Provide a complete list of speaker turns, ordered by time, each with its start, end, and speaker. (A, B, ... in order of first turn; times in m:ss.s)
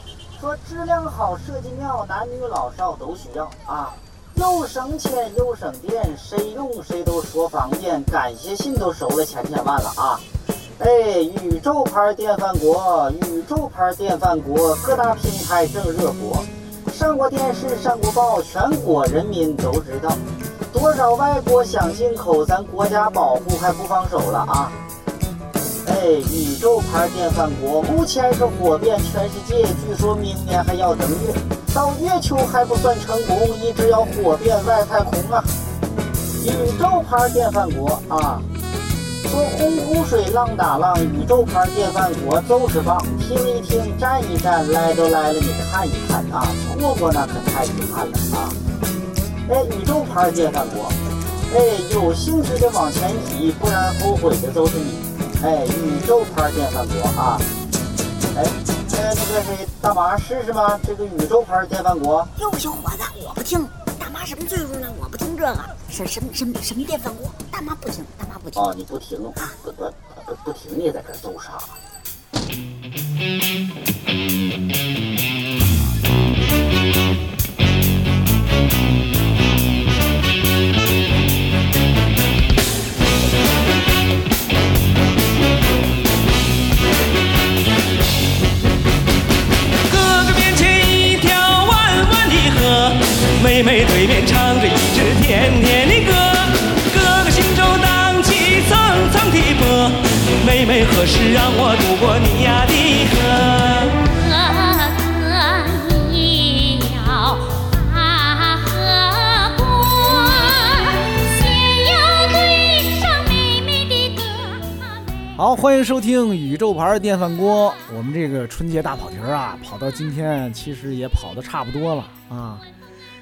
0:00.3-0:10.2 A
0:10.8-0:20.2 A
0:20.7-0:24.8 A
0:25.8-0:35.5 A
0:36.4-0:38.4 A
0:39.2-0:48.6 A
0:49.5-0:51.0 A
0:51.5-0:57.4 A
0:58.3-1:02.3 A
1:02.4-1:08.7 B
1:08.6-1:11.8 A
1:29.8-1:44.0 C
1:44.1-1:54.8 D
1:55.4-2:02.6 E